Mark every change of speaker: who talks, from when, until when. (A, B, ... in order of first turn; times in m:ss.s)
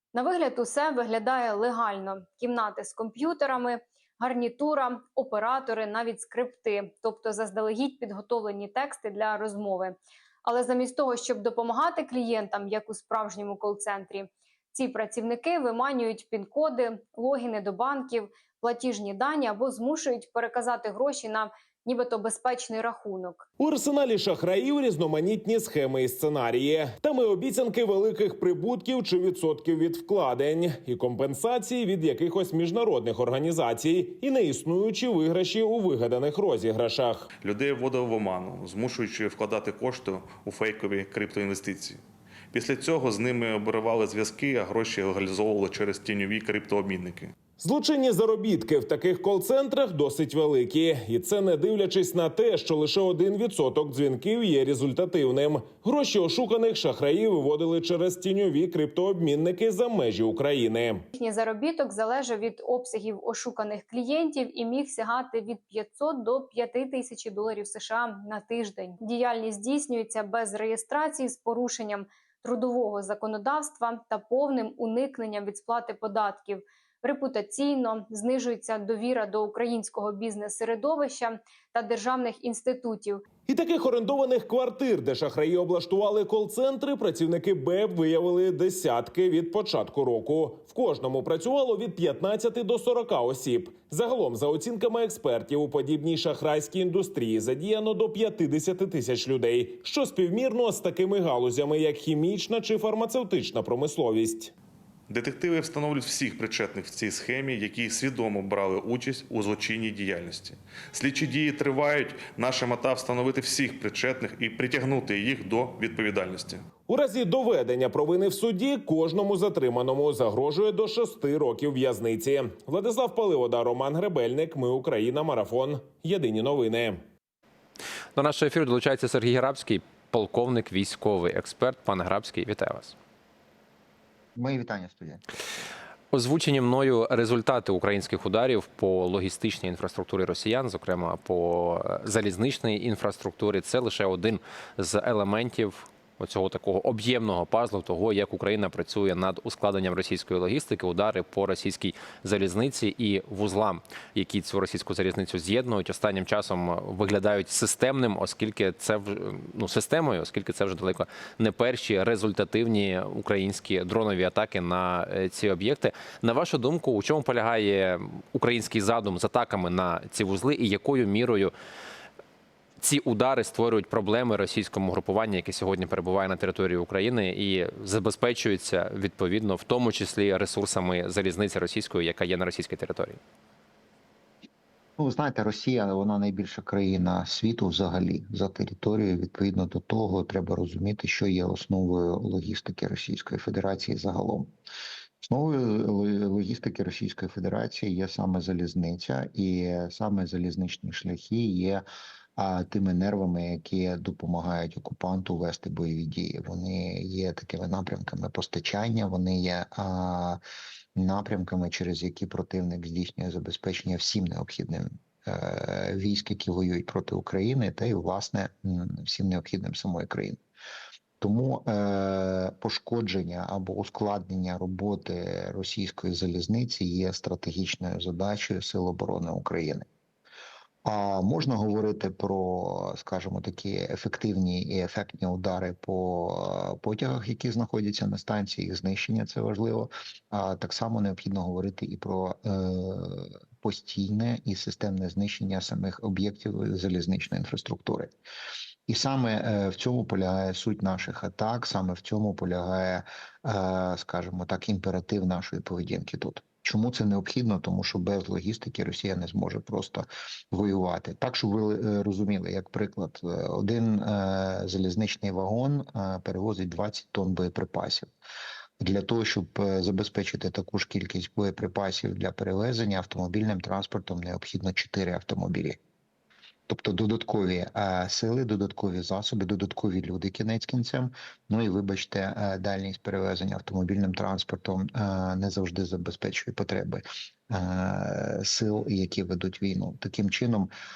0:00.1-0:23.4 A
0:23.6-0:37.3 B
0:37.4-0:47.3 C
0:47.6-1:01.1 B
1:01.2-1:23.2 A
1:23.5-1:44.5 B
1:45.1-1:56.7 C
1:56.9-2:07.0 B
2:08.2-2:12.9 D
2:14.3-2:15.2 E
2:16.1-2:51.5 D
2:52.8-3:03.2 D
3:05.0-3:14.5 E
3:15.2-3:21.8 E
3:22.4-3:30.4 E
3:30.9-3:40.4 E
3:41.2-3:49.9 E
3:50.8-4:08.1 E
4:08.9-4:28.1 E
4:28.8-4:35.8 E
4:36.7-4:50.7 E